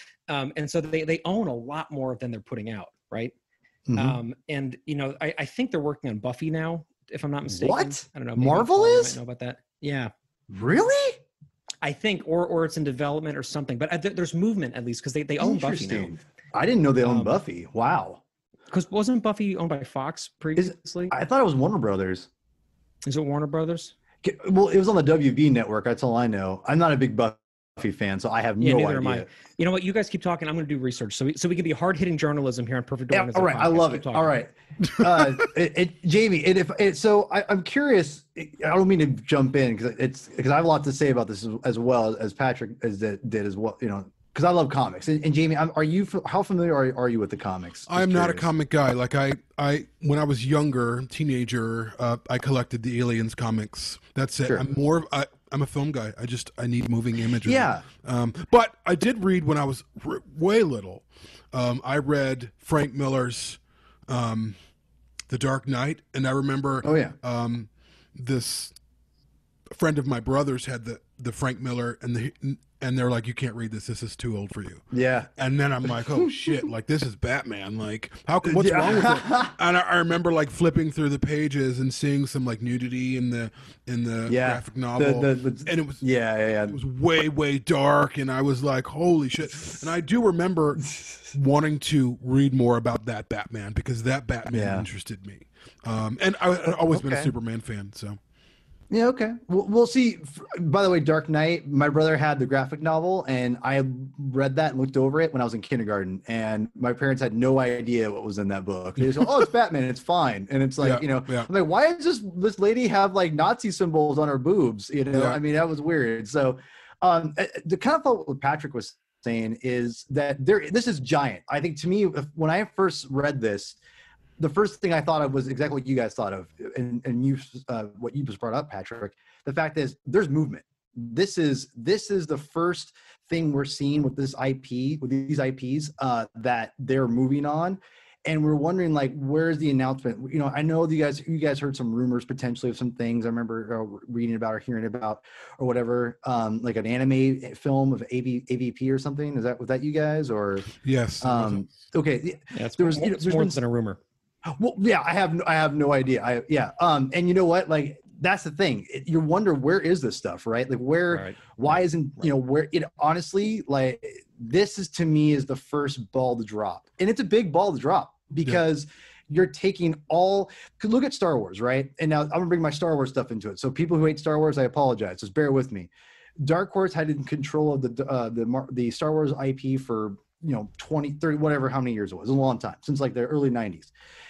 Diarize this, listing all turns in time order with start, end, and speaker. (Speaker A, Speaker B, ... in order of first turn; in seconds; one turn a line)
Speaker A: 0.3-3.3
Speaker B: 3.9-4.2
Speaker A: 4.0-10.1
Speaker B: 7.5-9.2
Speaker B: 10.5-11.2
Speaker A: 11.8-16.2
Speaker B: 15.4-18.2
Speaker A: 17.0-17.4
Speaker A: 18.7-21.1
Speaker B: 20.6-22.3
Speaker A: 23.1-23.9
Speaker B: 24.2-29.3
Speaker A: 28.6-34.4
Speaker B: 33.1-48.5
Speaker C: 35.0-35.4
Speaker C: 47.9-64.6
Speaker B: 57.5-57.9
Speaker C: 65.3-68.7
Speaker B: 66.8-67.2
Speaker C: 69.7-74.8
Speaker B: 74.9-75.3
Speaker C: 75.4-86.0
Speaker B: 75.8-76.6
Speaker B: 78.4-79.5
Speaker B: 84.3-86.8
Speaker C: 86.7-98.2
Speaker B: 94.5-94.9
Speaker B: 96.9-97.3
Speaker B: 98.9-123.8
Speaker C: 110.8-111.5
Speaker C: 115.1-115.4
Speaker B: 124.4-153.6
Speaker C: 150.8-151.7
Speaker A: 152.5-154.0
Speaker B: 154.4-183.9
Speaker A: 161.1-161.6